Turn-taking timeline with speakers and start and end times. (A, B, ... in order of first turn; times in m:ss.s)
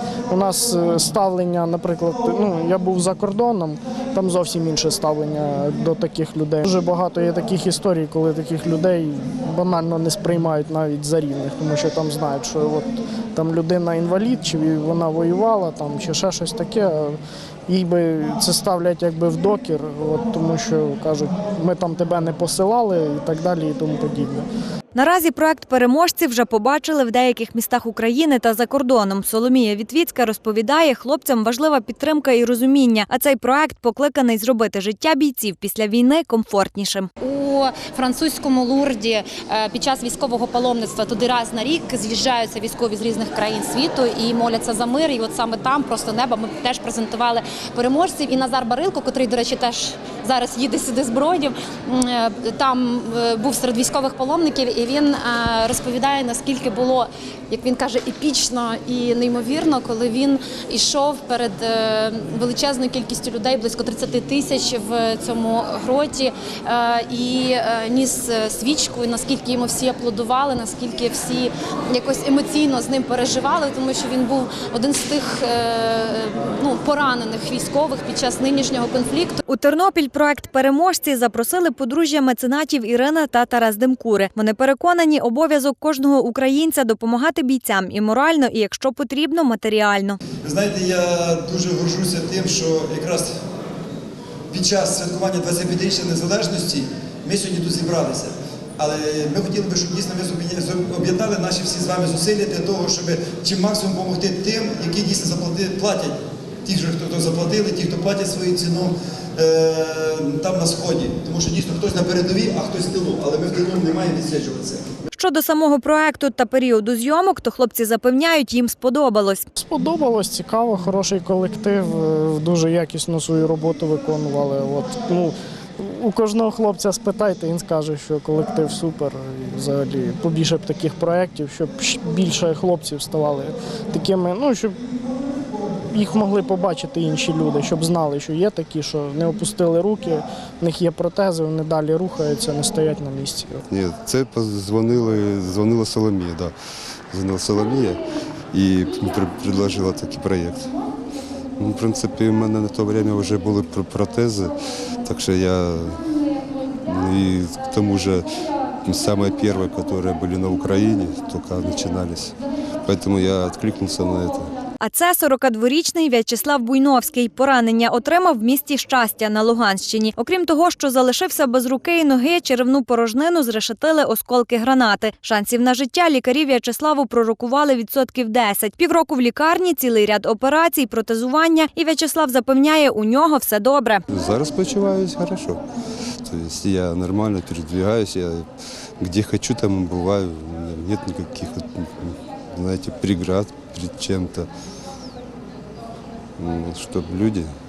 0:00.3-0:24.4 A
0:24.9-0:37.1 B
0:37.2-1:19.4 C
1:19.4-1:30.2 B
1:30.4-1:33.3 D
1:34.5-1:54.9 D
1:55.1-1:59.4 B
1:59.6-2:14.8 A
2:15.9-2:23.6 A
2:23.7-2:26.5 E
2:27.1-2:30.7 E
2:31.6-2:36.0 E
2:36.8-2:38.2 E
2:38.8-2:44.5 E
2:44.8-3:04.0 B
3:04.1-3:05.6 E
3:06.2-3:08.4 E
3:09.0-3:14.5 E
3:16.4-3:17.5 E